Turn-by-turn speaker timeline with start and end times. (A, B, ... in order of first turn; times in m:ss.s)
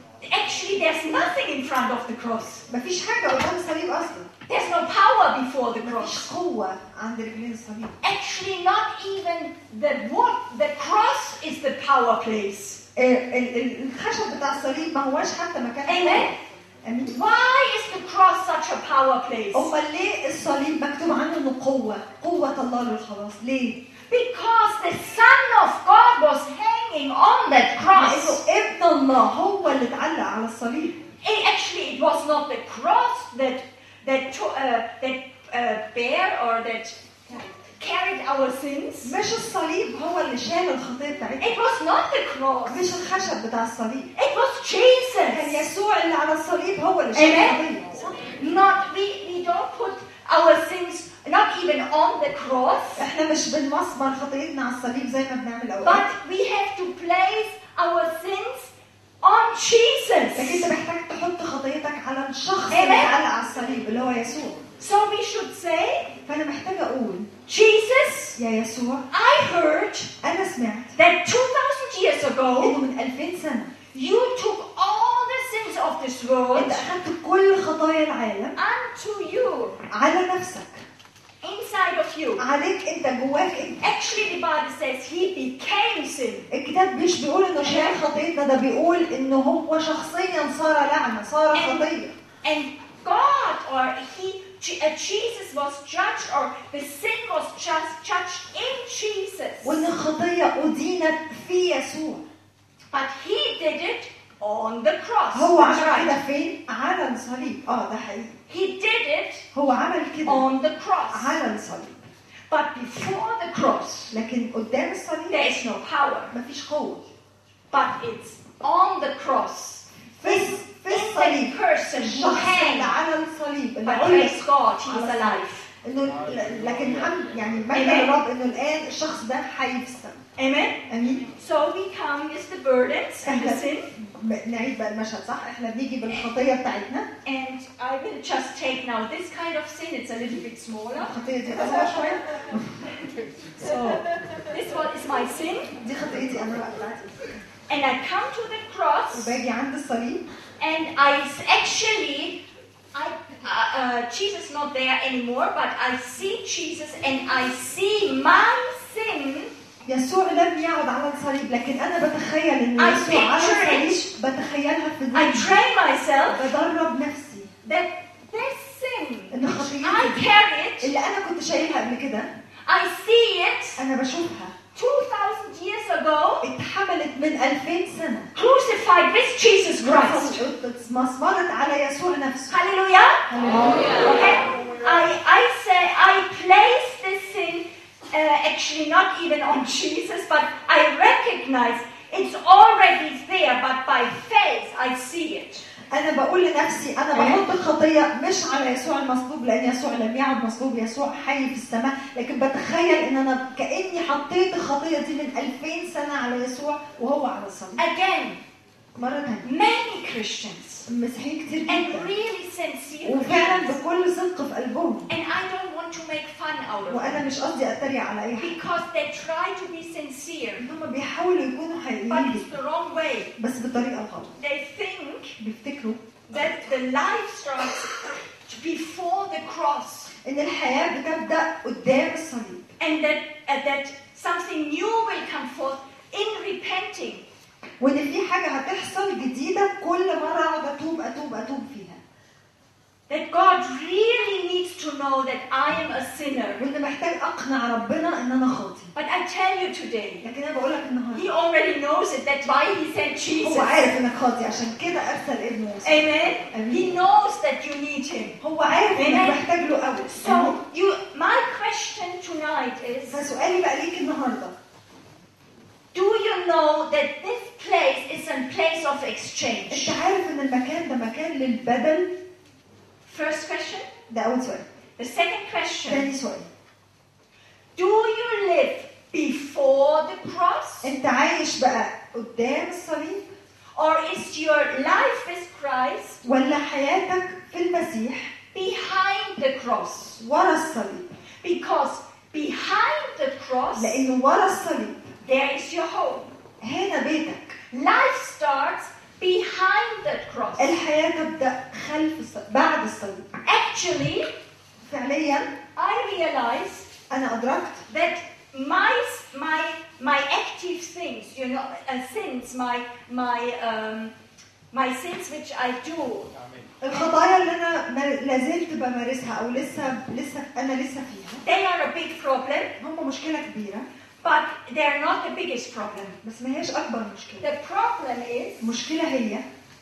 0:00.2-0:02.6 A
0:02.7-0:04.3 B
0:04.5-0:06.3 A
0:05.8-0:08.0 B
0:08.0-0:12.8 A
0:13.0-0:17.2 B
0:15.9-0:16.4 A
0:17.1-0:19.7 A
0:19.5-0:23.8 B
0:24.1-0:28.4 A
0:27.9-0:31.0 B
0:31.2-0:39.2 A
0:39.0-0:41.6 B
0:41.4-0:42.9 A
0:42.7-0:44.1 B
0:44.2-0:45.7 A
0:45.3-0:48.1 B
0:47.1-0:47.6 A
0:48.2-0:53.1 A
0:53.0-0:56.1 B
0:55.8-1:00.7 A
1:00.4-1:04.6 B
1:02.7-1:03.2 A
1:04.8-1:06.1 A
1:06.3-1:07.3 B
1:07.5-1:08.4 A
1:08.4-1:09.1 B
1:09.1-1:10.1 A
1:10.2-1:11.0 B
1:11.0-1:12.8 A
1:12.6-1:13.7 B
1:13.9-1:16.9 A
1:16.5-1:18.6 B
1:18.6-1:19.8 A
1:19.9-1:20.8 B
1:21.4-1:22.4 A
1:22.4-1:23.8 B
1:23.8-1:26.5 A
1:26.5-1:32.1 B
1:27.6-1:28.0 A
1:31.5-1:31.9 A
1:32.4-1:39.9 A
1:39.6-1:42.2 B
1:42.9-1:46.2 A
1:45.3-1:48.4 B
1:48.5-1:49.4 A
1:49.5-1:50.5 B
1:50.2-1:51.4 A
1:51.1-1:52.0 B
1:52.5-1:54.1 A
1:54.1-1:55.4 B
1:55.3-1:56.3 A
1:56.3-1:57.0 B
1:57.7-2:03.0 A
2:00.2-2:10.2 B
2:03.8-2:05.7 A
2:07.7-2:08.1 A
2:10.4-2:10.8 A
2:10.9-2:11.3 B
2:11.4-2:13.9 A
2:13.2-2:17.1 B
2:17.2-2:21.1 A
2:21.0-2:22.9 B
2:23.6-2:25.7 A
2:25.8-2:27.3 B
2:27.7-2:29.4 A
2:29.1-2:30.2 B
2:30.6-2:32.4 A
2:32.9-2:39.5 A
2:39.8-2:45.6 B
2:42.8-2:44.1 A
2:45.1-2:46.5 A
2:46.3-2:47.5 B
2:47.6-2:50.9 A
2:49.3-2:50.3 B
2:50.8-2:52.3 B
2:52.7-2:53.8 A
2:53.8-2:54.6 B
2:54.7-2:56.5 A
2:56.4-2:58.3 B
2:58.4-3:00.4 A
2:59.8-3:02.5 B
3:02.5-3:03.2 A
3:03.3-3:04.1 B
3:03.9-3:15.6 A
3:15.9-3:27.8 B
3:17.2-3:17.4 A
3:27.8-3:28.4 A
3:29.0-3:29.5 B
3:29.4-3:30.9 A
3:30.9-3:32.1 B
3:31.7-3:33.8 A
3:33.0-3:35.1 B
3:35.1-3:37.2 A
3:36.9-3:38.6 B
3:38.4-3:40.7 A
3:40.6-3:42.5 B
3:42.1-3:43.3 A
3:43.4-3:44.4 B
3:44.4-3:45.4 A
3:45.4-3:46.0 B
3:46.3-3:50.1 A
3:50.2-3:52.7 B
3:52.8-3:57.2 A
3:57.8-4:02.0 B
4:03.1-4:06.6 A
4:06.6-4:08.9 B
4:09.0-4:10.2 A
4:10.2-4:11.3 B
4:11.1-4:13.8 A
4:13.4-4:16.9 B
4:15.8-4:18.4 A
4:18.4-4:20.6 B
4:18.9-4:19.4 A
4:20.1-4:23.2 A
4:23.1-4:24.6 B
4:25.9-4:30.0 A
4:29.7-4:32.1 B
4:33.0-4:33.9 A
4:34.1-4:34.6 B
4:35.0-4:36.1 A
4:35.9-4:36.5 B
4:37.8-4:40.9 A
4:40.8-4:43.3 B
4:43.8-4:46.2 A
4:46.2-4:48.3 B
4:48.5-4:50.2 A
4:50.2-4:51.1 B
4:51.4-4:54.0 A
4:53.8-4:55.1 B
4:55.2-4:56.3 A
4:56.6-4:57.6 B
4:57.7-5:00.8 A
5:00.6-5:03.3 B
5:03.4-5:04.3 A
5:04.8-5:05.5 B
5:05.8-5:06.9 A
5:07.1-5:07.8 B
5:07.9-5:14.1 A
5:14.7-5:16.3 A
5:16.8-5:21.4 B
5:21.4-5:22.7 A
5:22.8-5:23.9 B
5:24.2-5:26.2 A
5:26.2-5:27.5 B
5:27.4-5:28.7 A
5:28.6-5:29.4 B